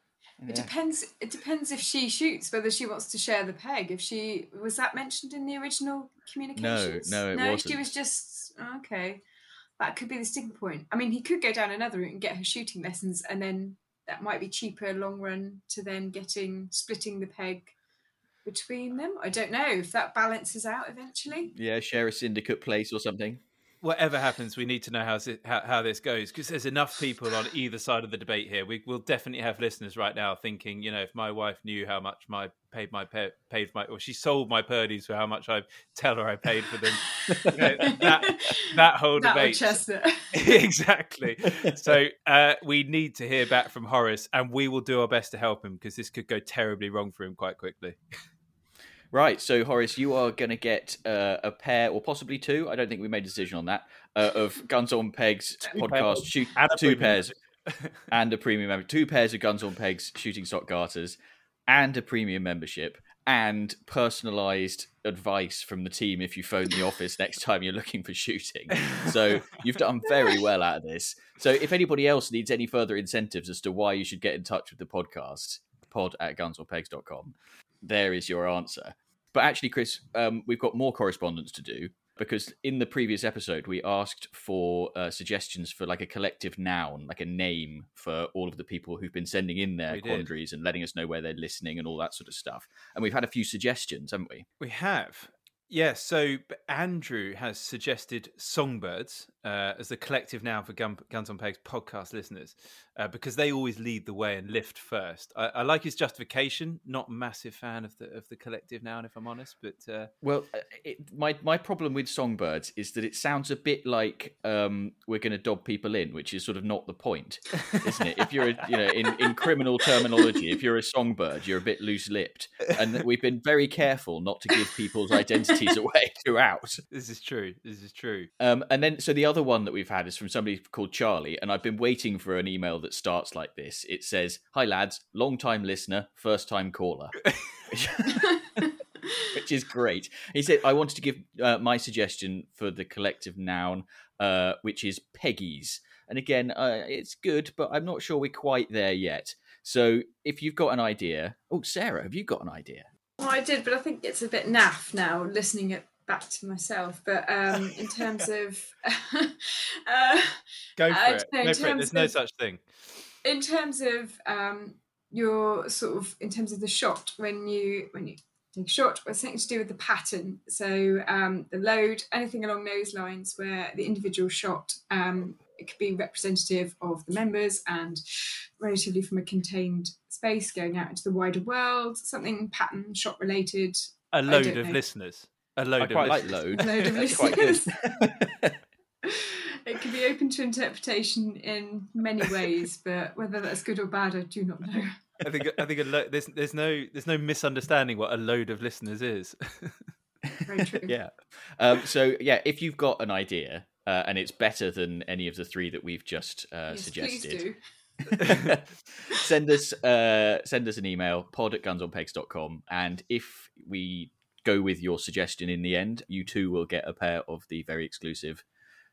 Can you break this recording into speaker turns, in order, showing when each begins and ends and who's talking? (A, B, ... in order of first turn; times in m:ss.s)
0:00.4-0:00.7 A
0:00.5-0:09.2 B
0:06.6-0:07.8 A
0:09.8-0:17.7 B
0:18.4-0:21.5 B
0:21.5-0:23.4 A
0:23.8-0:39.8 C
0:37.1-0:40.6 B
0:37.3-0:37.8 A
0:40.3-0:48.0 C
0:41.6-0:42.0 A
0:49.1-0:57.3 A
0:55.6-0:58.0 C
0:58.1-1:34.5 A
1:08.8-1:09.1 C
1:29.9-1:30.3 C
1:34.6-1:50.1 C
1:50.2-2:06.8 A
2:06.9-2:08.3 C
2:08.4-2:17.2 A
2:17.7-2:18.7 A
2:18.2-2:19.3 B
2:19.3-2:32.9 A
2:33.2-2:42.1 B
2:40.8-2:42.6 C
2:43.2-3:04.8 B
3:04.1-3:07.3 C
3:05.8-3:08.6 A
3:06.5-3:07.8 B
3:09.0-3:15.0 B
3:15.2-3:19.8 C
3:20.3-3:27.4 A
3:20.5-3:21.0 B
3:26.7-3:27.6 B
3:28.0-3:38.4 A